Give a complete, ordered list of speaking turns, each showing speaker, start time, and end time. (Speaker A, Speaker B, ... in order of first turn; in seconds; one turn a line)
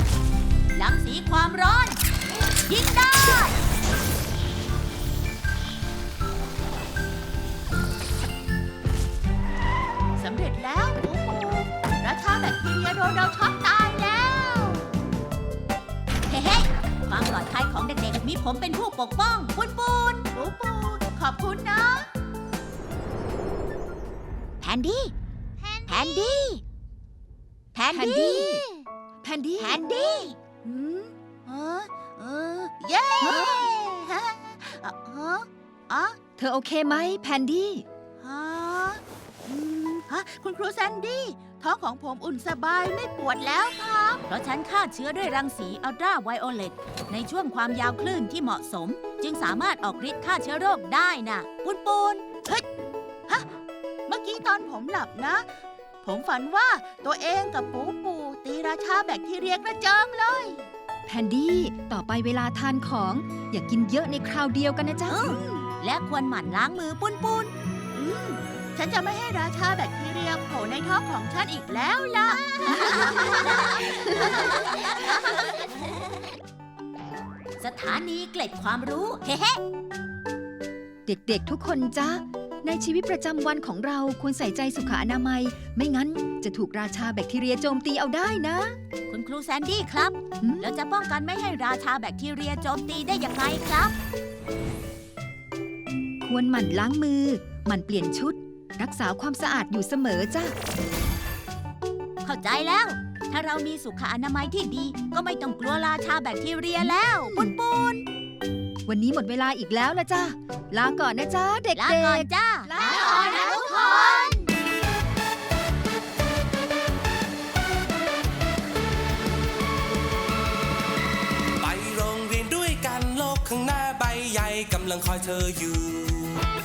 Speaker A: 0.8-2.0
Speaker A: 2.6-3.6
Speaker B: 10.2-14.8
Speaker A: 16.3-20.2
Speaker B: 20.3-22.1
Speaker C: 24.6-25.1
Speaker B: 25.7-26.3
Speaker C: 25.9-26.6
Speaker C: 27.8-28.6
Speaker D: 27.9-28.6
Speaker D: 29.2-29.8
Speaker C: 29.6-30.4
Speaker B: 30.6-36.2
Speaker D: 36.4-37.9
Speaker B: 38.2-44.2
Speaker A: 44.3-52.2
Speaker B: 54.1-55.5
Speaker B: 56.0-60.6
Speaker D: 61.1-65.4
Speaker B: 65.1-65.7
Speaker A: 65.8-67.5
Speaker B: 67.9-75.5
Speaker A: 72.8-73.3
Speaker A: 77.6-79.6
Speaker D: 81.1-88.8
Speaker A: 89.1-94.0
Speaker D: 90.4-90.7
Speaker D: 96.2-100.5
Speaker A: 102.2-108.0
Speaker D: 108.9-114.1
Speaker A: 111.8-114.5
Speaker B: 112.8-114.5
Speaker E: 121.6-126.4